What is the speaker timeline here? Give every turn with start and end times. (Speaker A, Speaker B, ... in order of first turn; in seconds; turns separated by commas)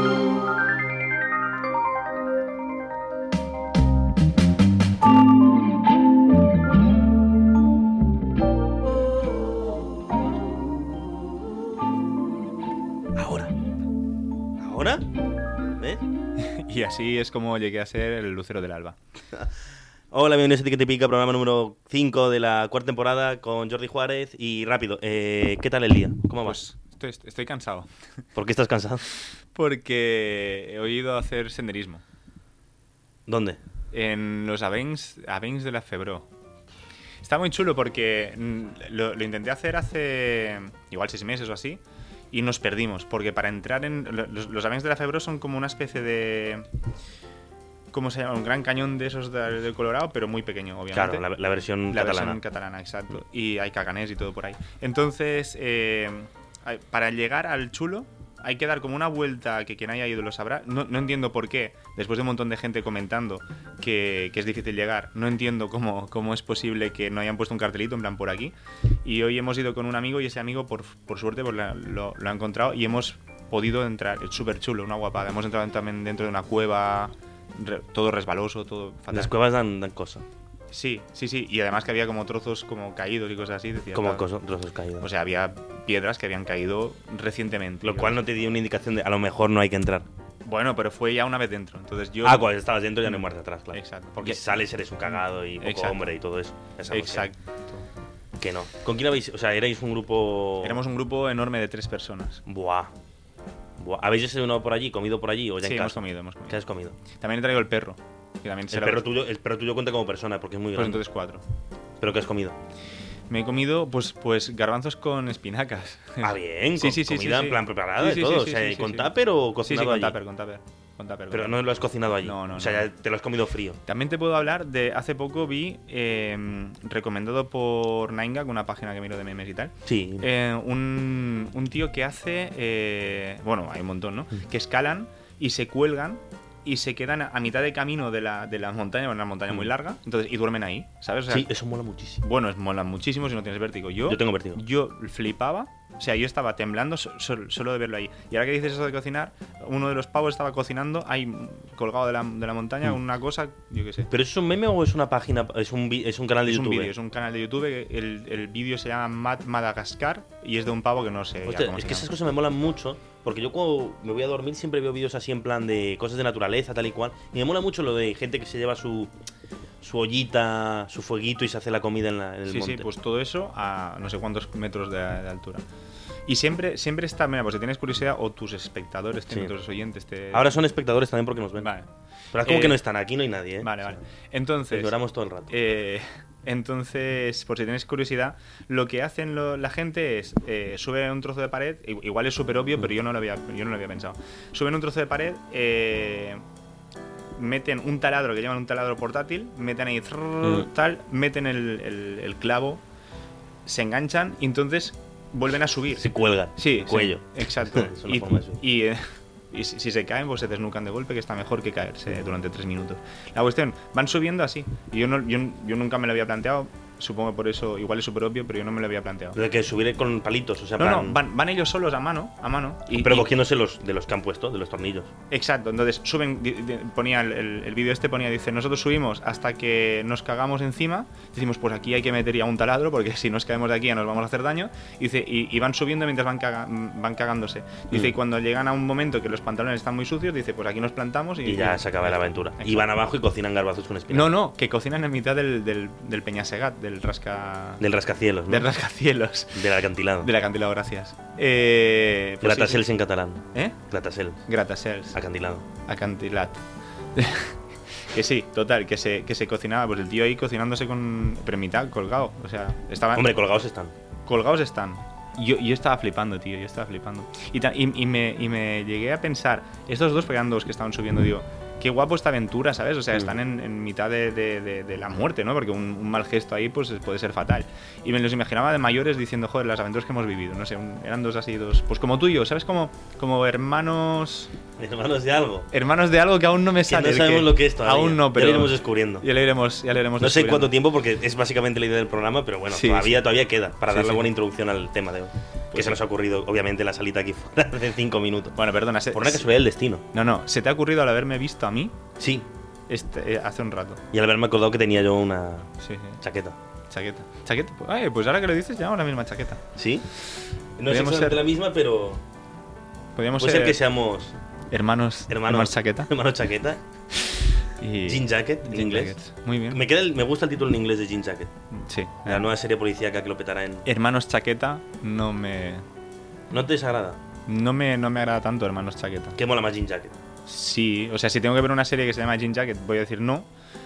Speaker A: 13.2-13.5, Speaker A: 14.6-15.1, Speaker A: 15.8-16.0, Speaker B: 16.4-19.0, Speaker A: 20.1-26.6, Speaker B: 26.4-27.9, Speaker A: 28.4-29.0, Speaker B: 29.6-32.0, Speaker A: 33.3-33.6, Speaker B: 33.9-36.3, Speaker B: 37.2-46.6, Speaker B: 47.9-51.3, Speaker A: 50.9-52.4, Speaker B: 51.9-79.3, Speaker A: 79.1-80.2, Speaker B: 80.7-84.2, Speaker A: 83.9-85.1, Speaker B: 85.0-88.2, Speaker A: 87.8-90.1, Speaker B: 90.4-92.5, Speaker A: 92.2-97.3, Speaker B: 93.7-96.1, Speaker B: 96.9-97.9, Speaker A: 98.4-100.8, Speaker B: 100.6-102.4, Speaker A: 102.5-102.9, Speaker A: 103.8-107.0, Speaker B: 105.6-109.0, Speaker A: 108.7-111.0, Speaker B: 110.8-111.4, Speaker A: 112.0-112.6, Speaker B: 113.3-121.5, Speaker A: 116.2-120.2, Speaker A: 121.3-123.8, Speaker B: 122.2-122.9, Speaker B: 123.9-141.5, Speaker A: 129.9-130.3, Speaker A: 141.3-142.2, Speaker B: 142.2-154.1, Speaker A: 144.1-144.6, Speaker A: 154.1-156.9, Speaker B: 156.4-162.1, Speaker A: 161.5-169.1, Speaker A: 169.8-172.9, Speaker B: 172.5-175.6, Speaker B: 176.3-180.6, Speaker A: 180.3-181.7, Speaker B: 181.6-181.9, Speaker A: 182.3-184.0, Speaker B: 182.4-182.8, Speaker B: 183.6-184.9, Speaker A: 184.7-185.6, Speaker B: 185.5-196.4, Speaker B: 197.4-202.8, Speaker B: 203.7-219.4, Speaker A: 206.0-208.6, Speaker A: 219.3-221.2, Speaker B: 220.8-223.3, Speaker A: 222.9-225.1, Speaker B: 225.3-242.9, Speaker A: 241.4-244.3, Speaker B: 244.1-247.8, Speaker A: 247.8-248.7, Speaker B: 248.5-249.7, Speaker A: 249.5-250.3, Speaker B: 250.2-252.9, Speaker A: 252.4-254.4, Speaker B: 254.5-255.2, Speaker A: 255.1-255.7, Speaker B: 255.8-256.6, Speaker B: 257.1-257.6, Speaker B: 258.1-263.3, Speaker A: 263.1-263.9, Speaker B: 264.3-284.5, Speaker A: 284.8-285.7, Speaker B: 285.7-290.7, Speaker A: 286.9-289.3, Speaker A: 290.2-298.6, Speaker B: 292.7-293.3, Speaker B: 293.9-294.3, Speaker B: 295.7-296.0, Speaker B: 298.6-299.5, Speaker A: 299.1-300.0, Speaker B: 300.1-302.0, Speaker A: 302.2-302.5, Speaker B: 302.9-304.0, Speaker A: 304.1-306.6, Speaker B: 305.8-306.2, Speaker B: 306.9-309.7, Speaker A: 309.8-310.1, Speaker A: 310.8-312.2, Speaker B: 310.9-311.4, Speaker B: 313.2-313.8, Speaker A: 313.4-314.4, Speaker B: 314.7-316.1, Speaker A: 315.3-316.8, Speaker B: 317.8-319.8, Speaker A: 318.1-319.2, Speaker A: 319.7-321.5, Speaker B: 321.7-322.5, Speaker A: 322.3-323.9, Speaker B: 323.9-325.8, Speaker A: 326.5-327.2, Speaker B: 327.5-329.4, Speaker A: 329.4-330.1, Speaker B: 330.5-333.5